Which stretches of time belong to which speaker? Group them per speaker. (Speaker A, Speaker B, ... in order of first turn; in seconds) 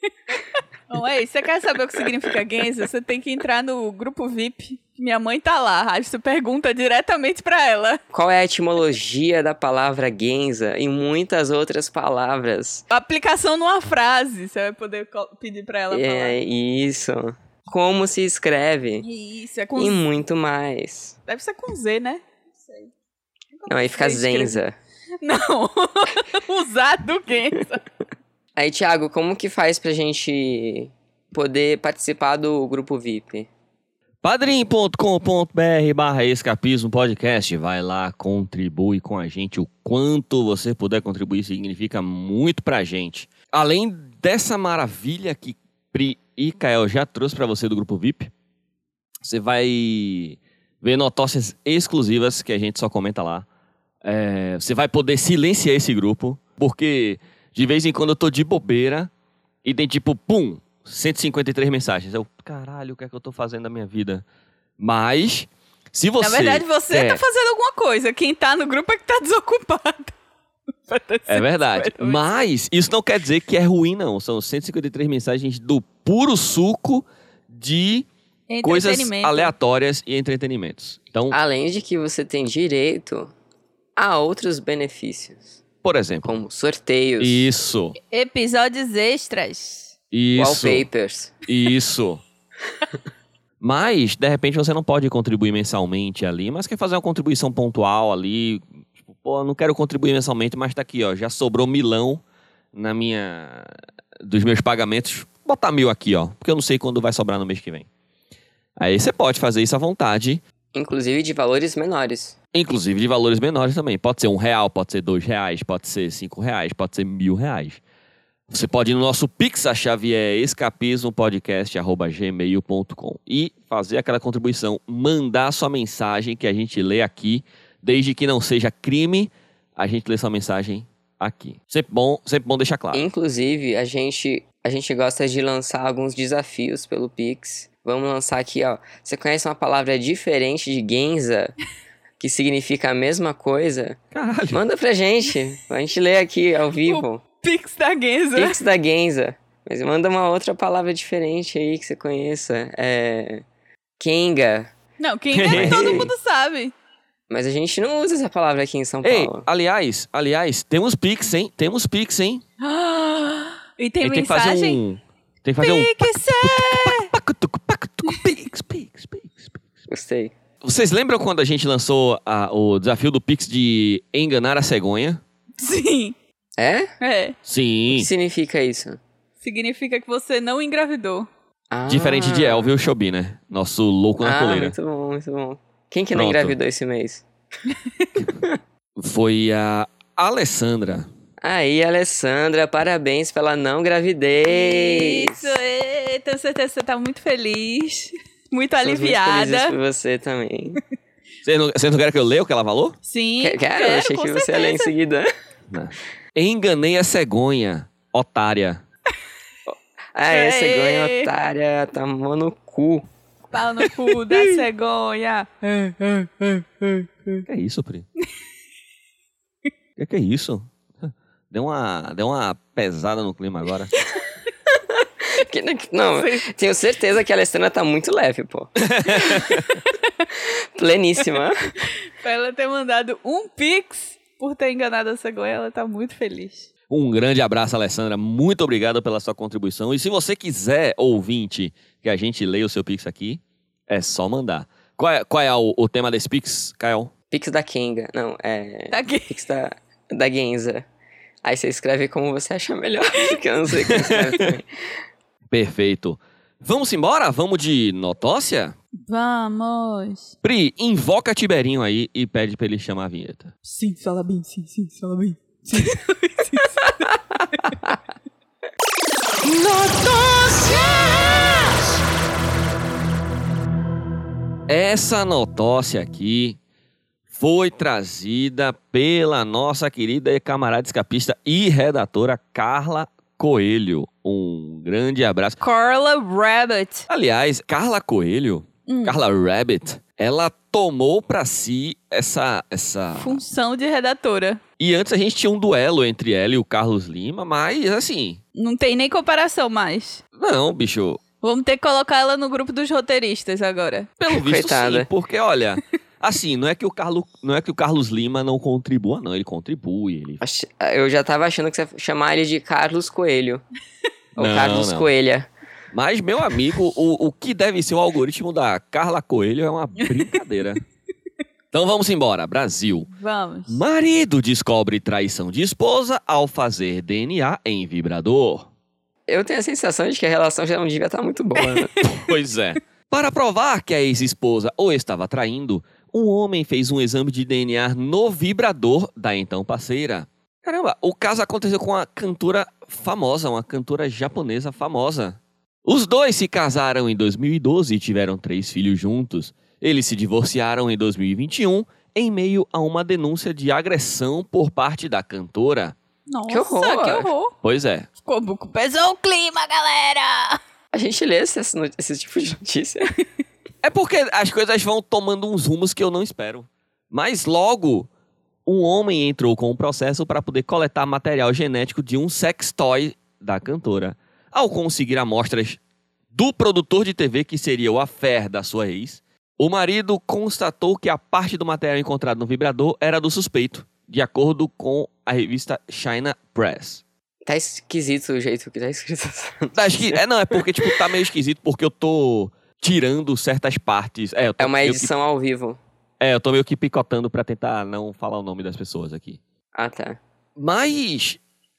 Speaker A: 0.9-8.0, 12.9-16.3, 19.0-20.0, 21.3-22.9, 23.6-24.6, 25.2-27.8, 66.2-70.2, 70.9-72.2, 78.5-79.5, 88.1-89.9, 146.9-148.6, 155.0-156.7, 162.6-164.8, 165.6-167.1, 175.6-176.1, 177.0-177.4, 179.4-181.3, 187.8-188.1, 194.5-199.8, 203.1-204.9, 210.3-211.3, 213.5-217.4, 226.2-226.4, 232.2-236.7, 248.9-249.3, 259.1-260.3, 263.6-267.8, 285.6-287.1, 288.9-289.2, 293.1-294.6, 298.6-300.2, 301.4-304.1, 323.1-323.8, 331.7-332.2, 356.3-357.5, 358.2-360.6
Speaker B: 8.1-12.8, 15.9-19.1, 19.8-21.2, 23.7-24.8, 28.6-33.5, 81.3-83.3, 84.0-85.6, 86.2-87.5, 90.4-91.4, 110.7-112.4, 132.9-141.6, 142.2-147.2, 148.3-153.4, 154.0-154.7, 155.5-156.1, 157.3-159.4, 169.9-170.3, 176.6-176.9, 177.9-179.0, 181.7-182.7, 184.2-187.2, 191.4-195.6, 198.8-200.8, 203.4-205.3, 209.7-213.1, 225.3-229.4, 230.3-231.6, 247.3-250.8, 251.4-254.7, 304.3-305.1, 310.4-313.6, 314.4-315.5, 329.3-331.9, 356.5-357.3, 360.9-363.1, 387.4-390.2, 394.6-395.8, 399.7-400.2
Speaker C: 34.2-48.3, 49.2-53.5, 54.0-59.1, 59.6-64.2, 64.8-67.2, 71.3-78.1, 78.6-81.4, 85.8-86.3, 87.2-88.0, 90.1-90.8, 91.5-92.2, 93.6-102.2, 102.7-107.9, 108.8-110.4, 112.5-117.8, 118.5-133.1, 144.1-144.6, 155.3-156.0, 159.0-162.4, 164.0-169.7, 170.6-175.2, 177.4-178.1, 181.9-184.8, 186.1-186.6, 189.0-191.1, 201.4-203.0, 205.7-208.8, 217.4-218.1, 220.0-223.9, 228.9-229.6, 236.9-247.1, 253.9-254.4, 255.5-258.8, 260.4-263.5, 274.7-276.6, 277.3-285.6, 287.1-293.4, 294.8-298.4, 300.4-301.2, 304.2-310.4, 314.4-315.1, 315.9-320.8, 321.7-323.1, 323.7-328.7, 332.0-355.9, 357.6-358.1, 363.8-368.1, 368.7-375.8, 376.3-387.0, 389.7-395.1, 396.2-399.4, 400.6-401.4